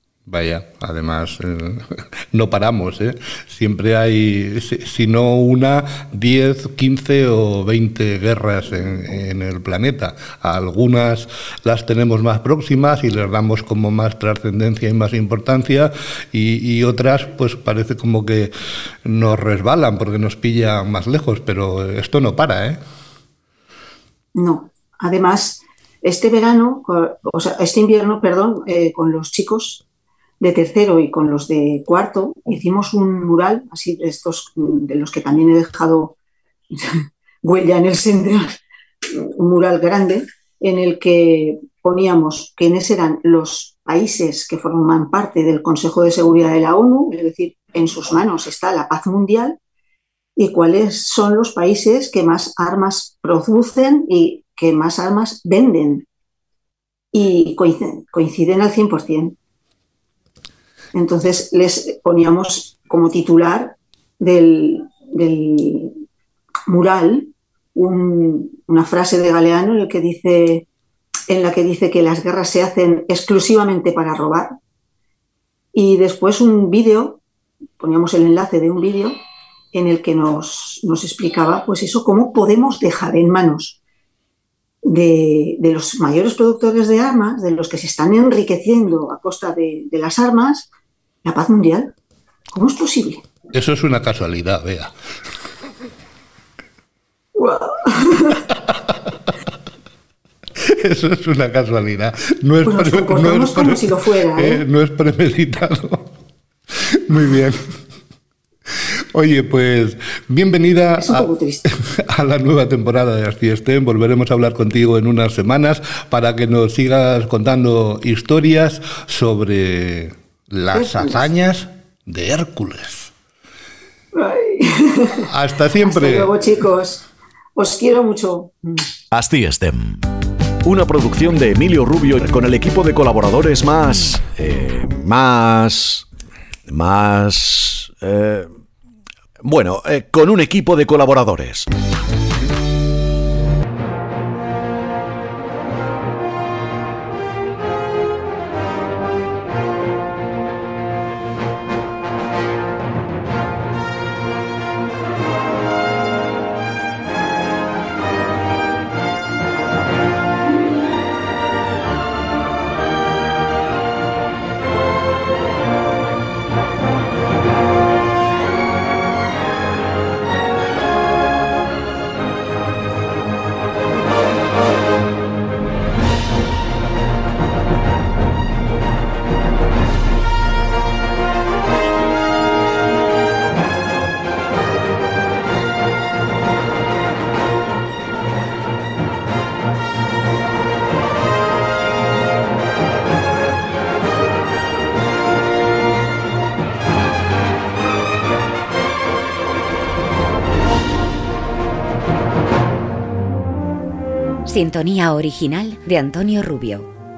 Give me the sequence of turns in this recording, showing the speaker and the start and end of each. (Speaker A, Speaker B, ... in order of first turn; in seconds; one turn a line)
Speaker A: 0.3-18.5
Speaker A: 19.0-22.8
Speaker B: 24.3-29.8
Speaker B: 30.4-36.1
Speaker B: 37.4-38.6
Speaker B: 39.1-49.6
Speaker B: 50.4-56.0
Speaker B: 57.1-59.4
Speaker B: 60.9-65.9
Speaker B: 66.7-70.7
Speaker B: 71.3-74.5
Speaker B: 75.7-77.2
Speaker B: 77.8-79.1
Speaker B: 79.7-83.8
Speaker B: 84.8-90.7
Speaker B: 91.2-91.9
Speaker B: 92.5-93.2
Speaker A: 93.5-94.9
Speaker B: 97.3-98.4
Speaker A: 100.7-106.0
Speaker B: 102.6-104.6
Speaker A: 106.9-107.6
Speaker A: 109.1-123.1
Speaker B: 111.0-111.7
Speaker B: 120.7-121.3
Speaker B: 124.1-125.3
Speaker A: 125.3-126.3
Speaker B: 125.8-127.0
Speaker B: 127.5-128.9
Speaker C: 129.1-130.0
Speaker C: 130.6-136.0
Speaker C: 136.7-138.5
Speaker C: 139.4-141.7
Speaker D: 204.4-206.9